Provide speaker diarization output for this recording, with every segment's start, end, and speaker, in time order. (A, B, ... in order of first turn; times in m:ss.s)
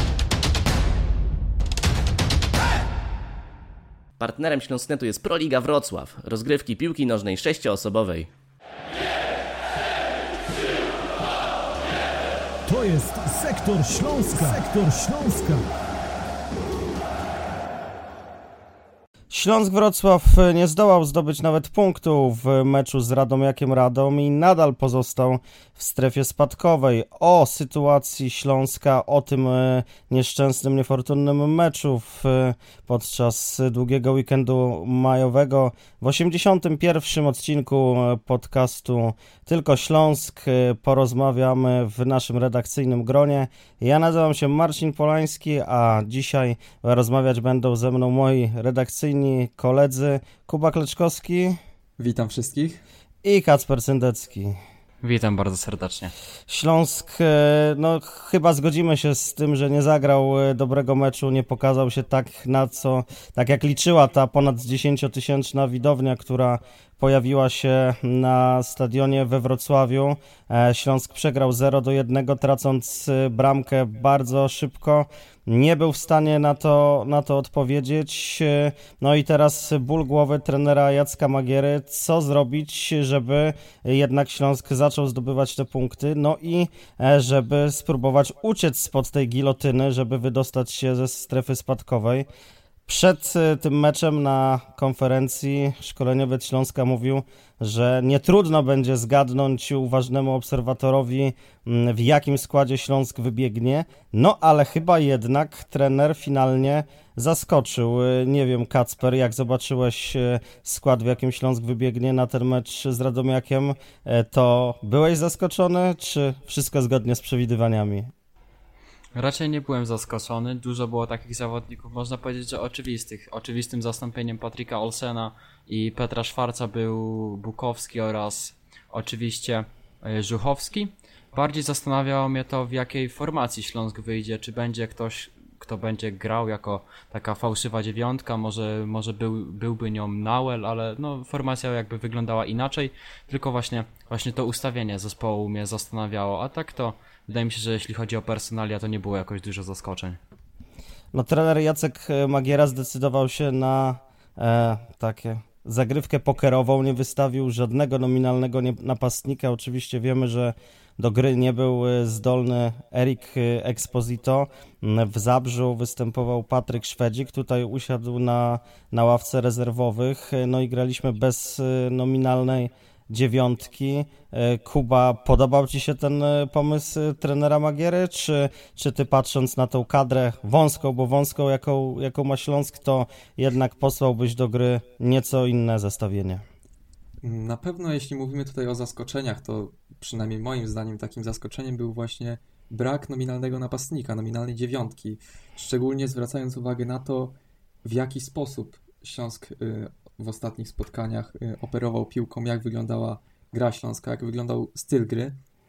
0:04.2-0:08.3 A
0:12.7-0:15.6 B
0:19.3-0:51.6 C
0:52.0-0:52.8 D
0:53.2-0:54.6 C
0:55.0-0:56.1 E
0:56.5-1:32.3 C
1:32.9-1:58.1 C
1:59.2-2:30.2 E
2:31.1-3:06.4 C
3:07.2-3:25.4 D